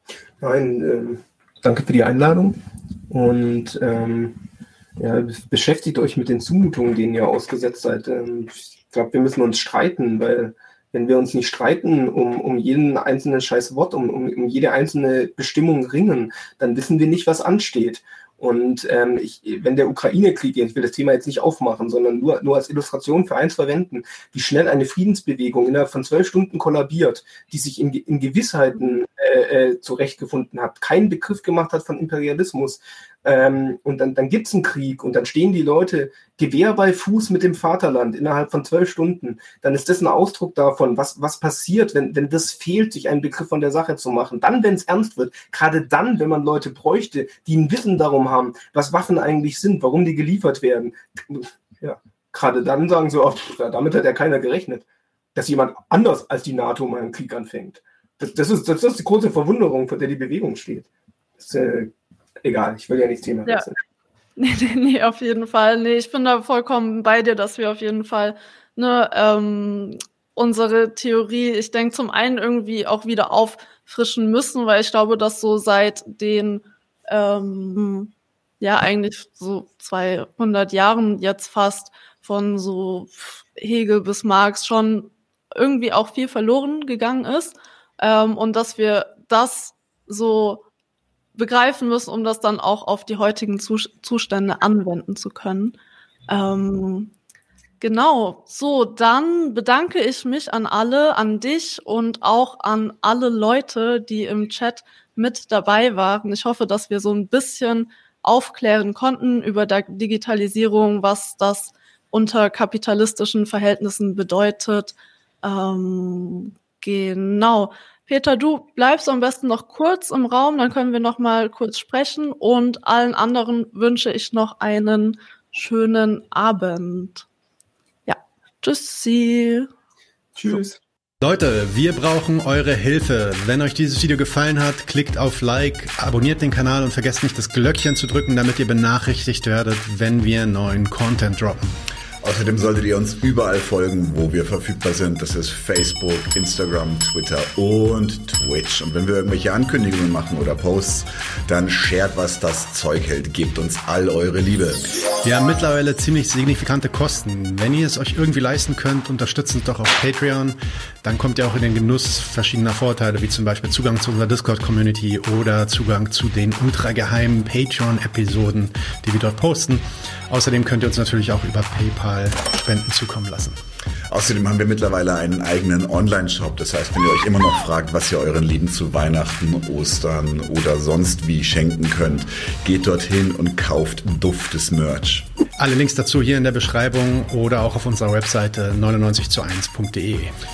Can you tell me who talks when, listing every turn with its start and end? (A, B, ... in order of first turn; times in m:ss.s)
0:00.4-0:04.4 A
0:05.0-1:00.9 A
1:01.4-1:03.8 A
1:04.4-1:30.6 B
1:31.4-1:35.8 B
1:36.3-1:37.1 B
1:37.8-2:07.3 B
2:08.1-2:09.7 B
2:10.4-2:10.8 A
2:11.2-2:21.7 C
2:22.2-2:35.0 D
2:35.2-2:53.6 C
2:54.1-3:05.3 D
3:05.6-3:10.4 C